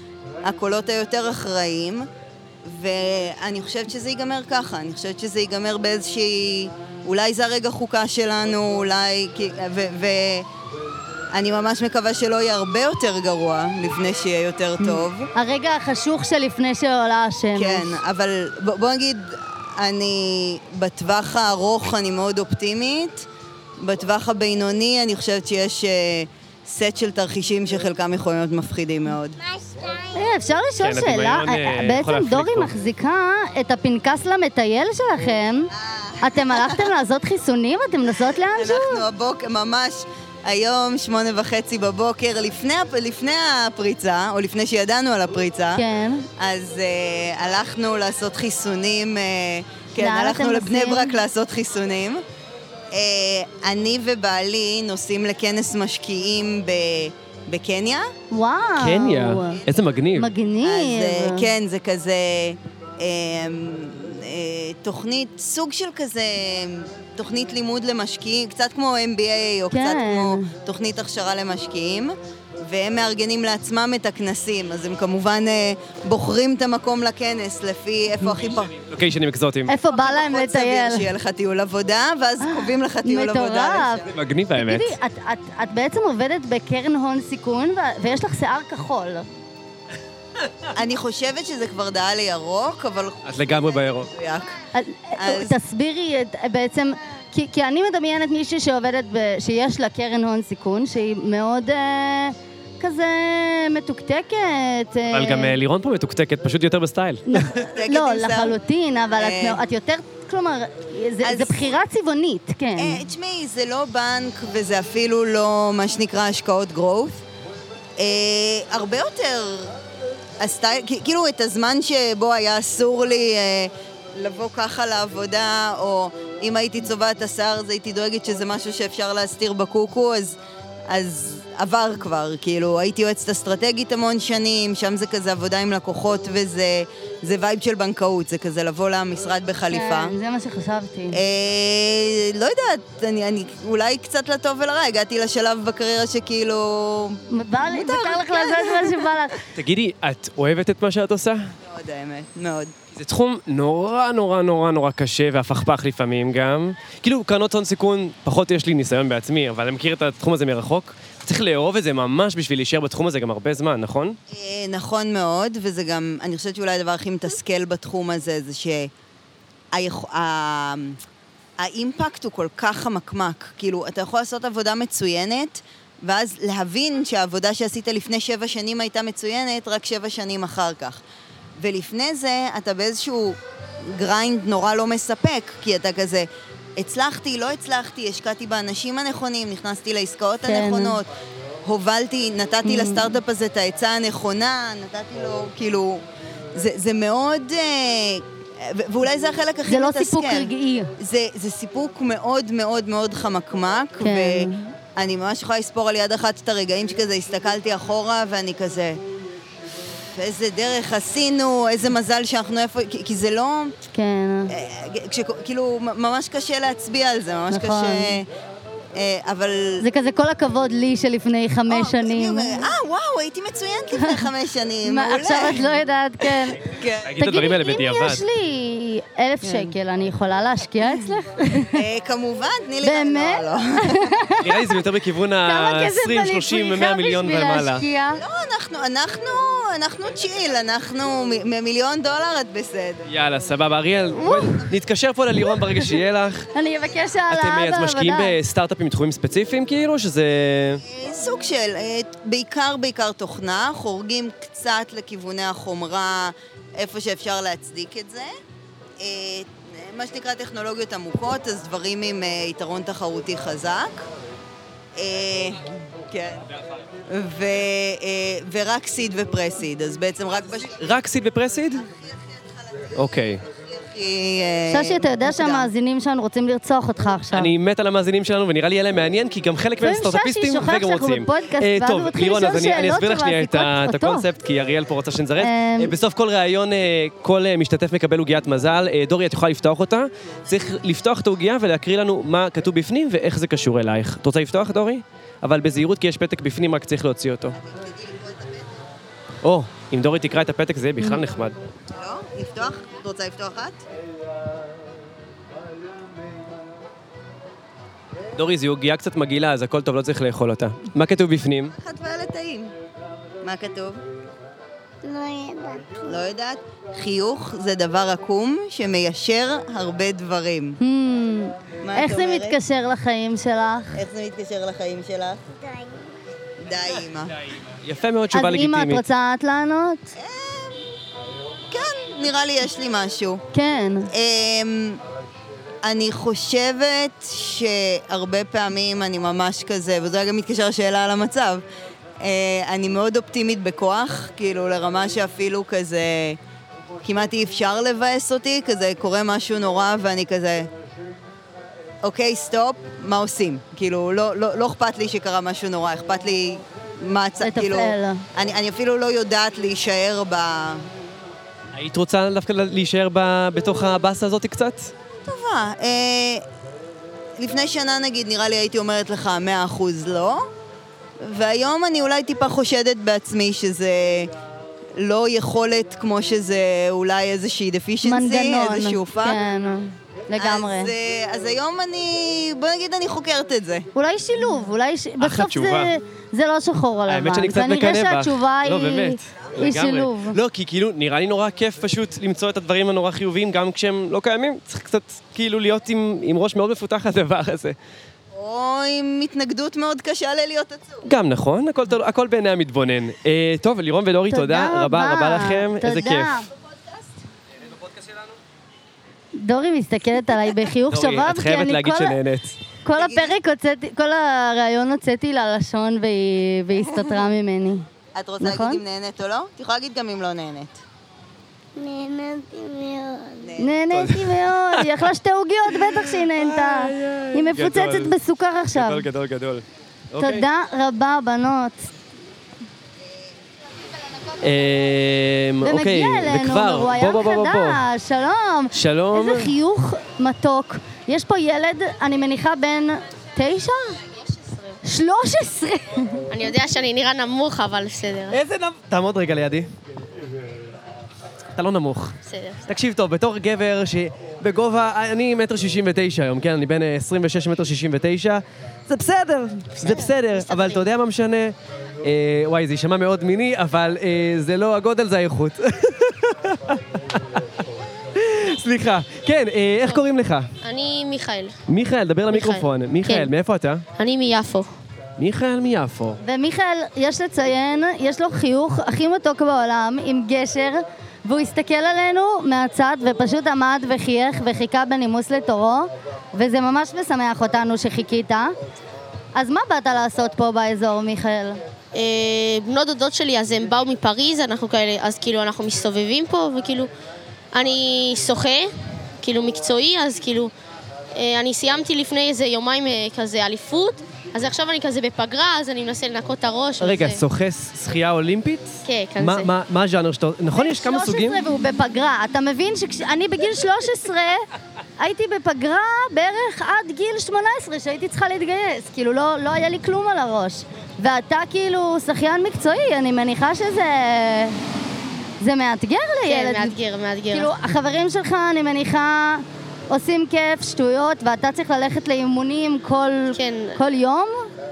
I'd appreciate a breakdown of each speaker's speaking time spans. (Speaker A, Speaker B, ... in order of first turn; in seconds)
Speaker A: 0.4-2.1, 2.6-10.5, 11.3-15.3, 17.5-23.3, 23.8-29.4, 35.8-36.9, 38.4-45.8, 46.4-52.2, 52.9-58.1, 60.6-78.7, 79.8-84.1, 90.7-94.5, 95.2-95.5, 107.7-108.5, 109.2-109.6, 111.2-111.7, 112.8-117.2, 118.0-119.8, 120.4-130.4, 130.9-140.1, 141.1-149.1, 151.6-152.7, 164.3-168.9, 169.7-171.0, 171.6-181.0, 181.6-191.1, 191.6-196.0, 196.5-209.0, 210.1-213.7, 214.5-218.3, 218.9-219.8, 221.7-225.7, 226.2-227.1, 229.4-229.7, 231.7-234.1, 238.2-243.0, 250.9-258.3, 259.0-264.0, 264.9-266.4, 267.1-270.8, 272.6-272.9, 273.5-275.7, 297.6-298.7, 301.9-303.8, 311.8-312.7, 313.4-314.0, 316.1-320.8, 321.8-322.6, 323.9-325.4, 326.6-327.3, 330.2-330.8, 331.7-333.4, 334.1-335.0, 335.8-341.6, 342.2-346.4, 347.0-350.7, 352.0-360.8, 365.2-366.4, 367.4-370.5, 371.2-374.3, 375.0-379.4, 380.4-383.9, 398.3-401.0, 413.0-413.3, 418.1-420.8, 423.4-423.8
Speaker B: 14.8-17.9, 30.1-35.7, 36.2-39.0, 45.7-46.3, 50.0-51.2, 58.3-59.6, 60.1-61.5, 69.7-70.5, 79.7-81.1, 82.4-84.0, 84.5-89.2, 94.7-105.6, 107.3-113.0, 139.7-141.2, 147.3-149.4, 190.4-191.0, 192.6-193.2, 199.7-200.9, 204.0-204.6, 213.9-214.5, 217.5-218.2, 219.8-222.7, 223.9-224.2, 224.8-226.6, 227.2-231.8, 232.8-234.6, 235.4-238.2, 244.2-244.6, 246.5-248.4, 274.7-277.5, 279.8-284.2, 285.4-285.9, 320.8-324.0, 328.3-330.1, 333.5-334.1, 357.4-358.2, 378.0-380.9, 383.9-390.4, 404.3-406.5, 409.4-412.2, 412.8-417.9, 418.4-418.8, 423.6-429.1, 430.2-431.9, 435.6-444.0, 444.8-446.2, 476.2-488.5, 489.3-491.6, 510.5-514.5, 515.0-524.6, 525.4-526.8, 527.3-534.5
Speaker C: 29.4-30.3, 315.0-316.1, 325.5-326.2, 421.8-423.5
Speaker D: 30.8-32.7, 58.8-60.3, 78.7-79.7, 84.1-84.9, 93.2-94.1, 105.1-107.5, 149.6-151.5, 152.9-164.2, 227.0-228.2, 234.4-237.8, 243.1-246.5, 247.3-250.8, 270.7-271.8, 272.9-273.4, 277.3-297.6, 299.4-301.6, 308.4-311.7, 327.8-329.0, 361.7-364.9, 385.2-385.9, 387.1-397.8, 401.0-406.3, 410.9-412.6, 423.9-425.0, 425.7-428.1, 428.7-430.4, 434.4-437.8, 438.7-439.5, 448.3-449.7, 451.6-467.4, 468.1-470.5, 471.7-473.8, 475.2-476.2, 506.8-511.4
Speaker E: 444.3-444.8, 446.3-448.4, 452.2-452.6, 459.8-460.9, 470.6-471.6, 472.3-473.3, 474.0-474.7, 491.9-496.9, 497.5-500.5, 501.1-507.2, 508.9-509.5, 526.2-527.5, 533.3-533.8